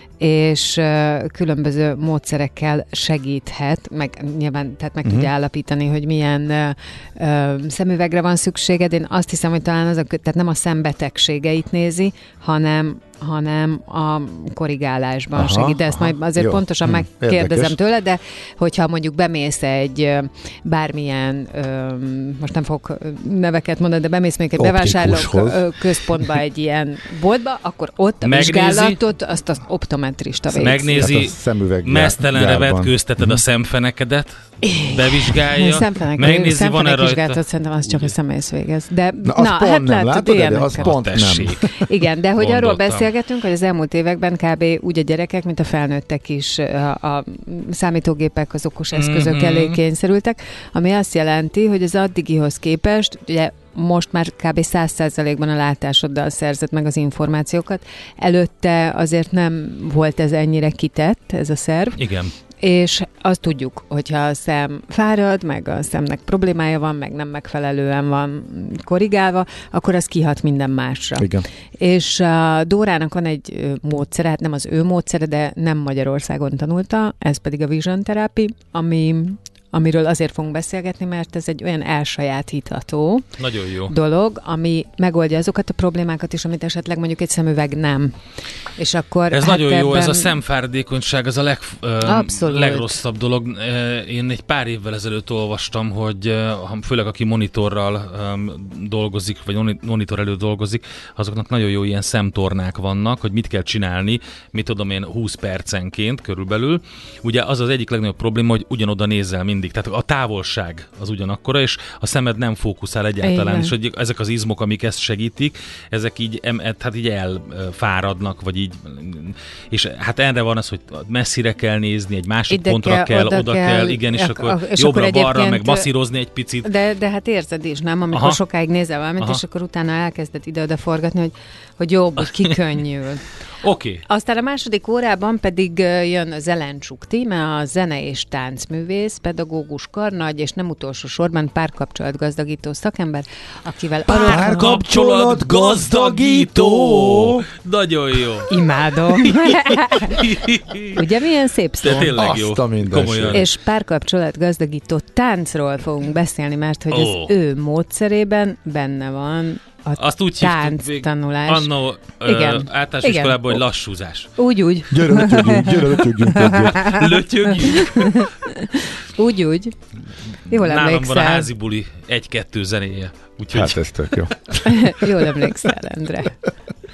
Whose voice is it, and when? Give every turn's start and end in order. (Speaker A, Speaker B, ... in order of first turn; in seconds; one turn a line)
Speaker A: 0.2-31.2
Speaker B: 5.0-5.3
Speaker B: 15.3-17.7
Speaker B: 24.6-26.2
Speaker C: 28.2-29.0
Speaker C: 30.5-38.1
Speaker B: 30.9-33.4
Speaker A: 34.6-40.9
Speaker B: 39.2-41.7
Speaker C: 40.8-41.7
Speaker A: 41.8-62.0
Speaker C: 42.4-43.0
Speaker C: 48.9-49.8
Speaker C: 62.0-62.3
Speaker A: 62.6-83.4
Speaker B: 71.2-71.5
Speaker C: 83.4-83.9
Speaker A: 83.9-88.2
Speaker A: 88.8-90.3
Speaker C: 89.3-126.7
Speaker A: 92.0-93.0
Speaker A: 113.2-113.7
Speaker A: 122.5-125.9
Speaker A: 126.6-133.3
Speaker C: 128.1-128.4
Speaker C: 133.6-134.0
Speaker A: 134.1-144.8
Speaker C: 144.1-148.5
Speaker B: 144.2-147.4
Speaker A: 148.5-150.2
Speaker C: 149.1-149.5
Speaker C: 150.1-151.1
Speaker A: 150.9-152.1
Speaker C: 151.8-153.4
Speaker B: 151.9-153.4
Speaker A: 153.3-161.7
Speaker C: 156.9-157.3
Speaker C: 160.0-164.3
Speaker A: 162.2-163.6
Speaker A: 164.4-169.8
Speaker B: 164.9-166.9
Speaker C: 166.4-168.3
Speaker A: 170.5-171.5
Speaker C: 170.5-174.0
Speaker B: 173.5-175.0
Speaker A: 174.7-176.4